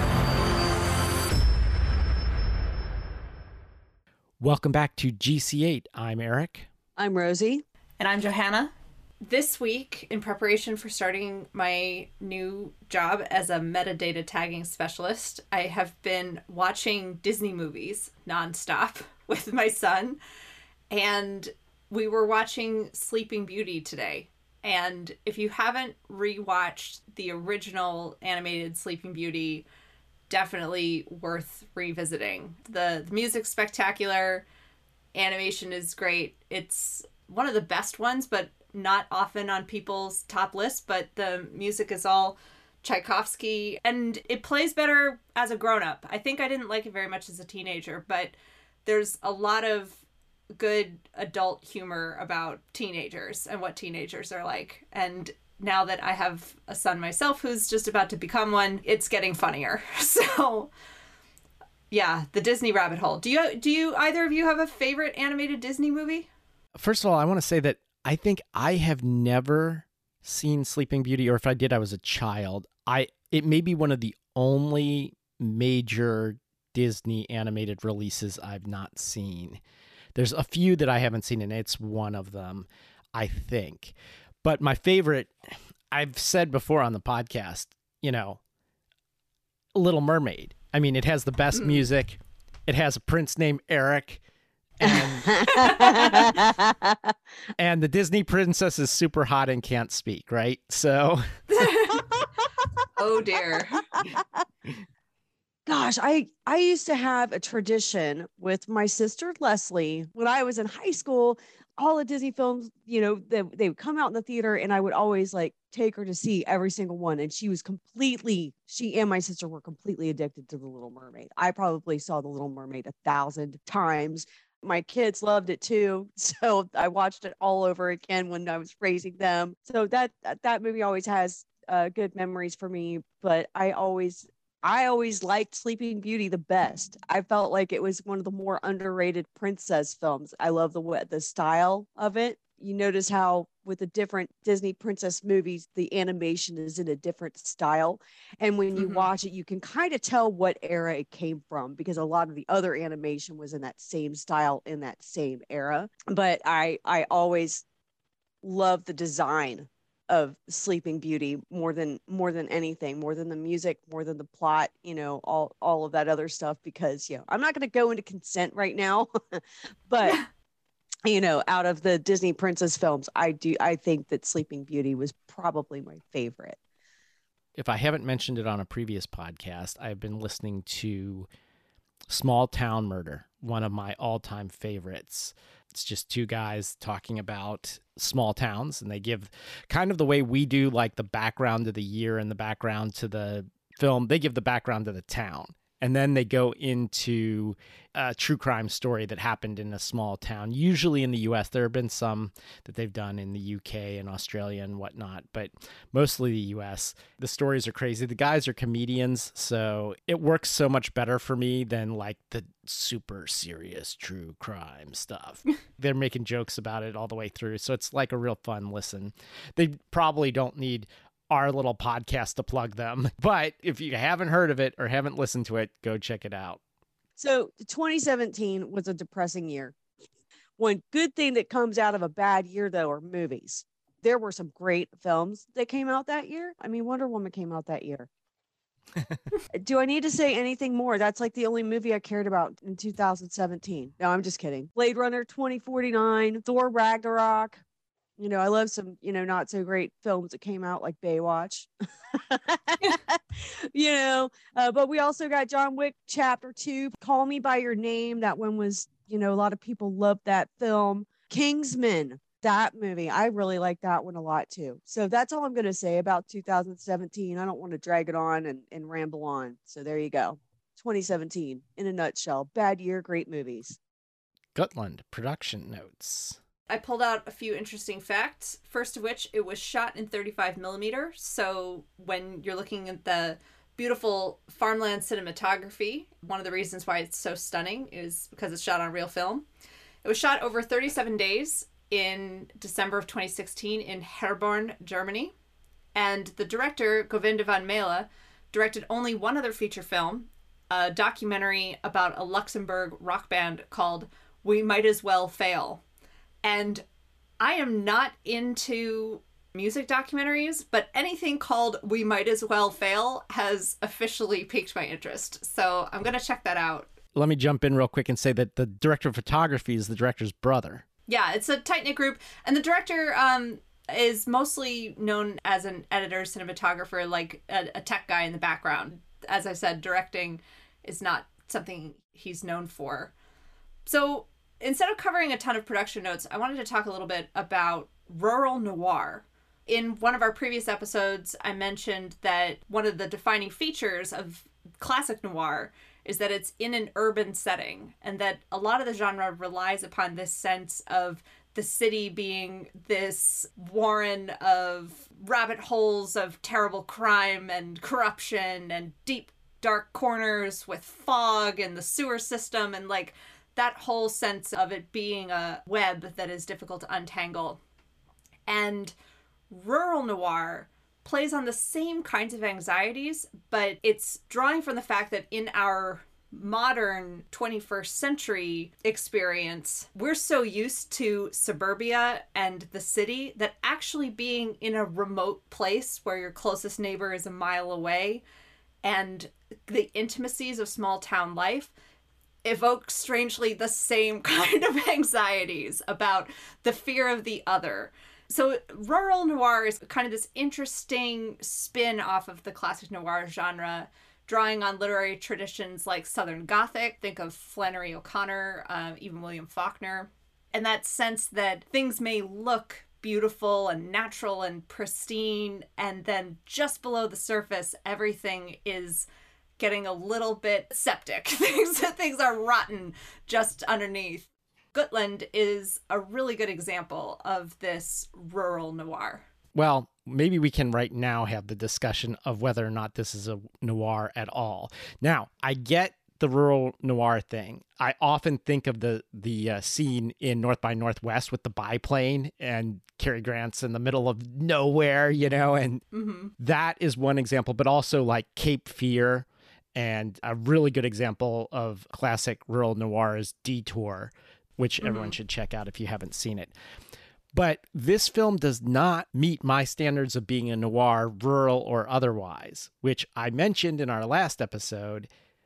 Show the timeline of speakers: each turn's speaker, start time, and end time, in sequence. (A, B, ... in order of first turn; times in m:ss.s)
0:04.4-0:06.7 A
0:07.0-0:07.6 B
0:08.0-0:08.7 C
0:09.2-0:20.2 C
0:20.9-0:29.6 C
0:30.3-0:34.4 C
0:35.1-0:50.0 C
0:50.6-1:00.7 C
1:01.9-1:06.3 C
1:06.8-1:19.6 A
1:20.1-1:25.3 A
1:25.9-1:28.4 A
1:29.7-1:34.2 A
1:31.6-1:31.8 C
1:34.8-1:36.0 A
1:34.8-1:37.0 B
1:35.5-1:36.3 C
1:37.6-1:41.2 A
1:41.5-1:42.1 C
1:43.0-1:43.8 C
1:43.9-1:44.2 B
1:45.7-2:37.6 B
2:28.7-2:29.0 C
2:38.4-2:50.2 B
2:51.1-2:56.6 B
2:57.6-3:01.3 A
3:02.1-3:46.6 A
3:47.2-3:49.7 B
3:50.6-3:58.1 B
3:59.6-4:07.6 B
4:08.2-4:11.7 B
4:12.2-4:33.8 B
4:34.5-4:36.4 A
4:36.7-4:49.4 C
4:50.0-4:55.3 C
4:55.9-5:05.8 C
5:06.4-5:06.8 C
5:07.4-5:16.9 C
5:17.1-5:20.8 A
5:21.1-5:33.1 C
5:33.8-6:07.6 C
6:08.5-6:08.9 C
6:09.5-6:28.2 C
6:28.8-6:31.7 C
6:32.4-6:59.0 C
6:59.6-7:09.2 C
7:09.5-7:25.8 A
7:25.9-7:26.3 C
7:26.4-7:36.5 A
7:34.8-7:35.1 C
7:37.3-7:45.1 A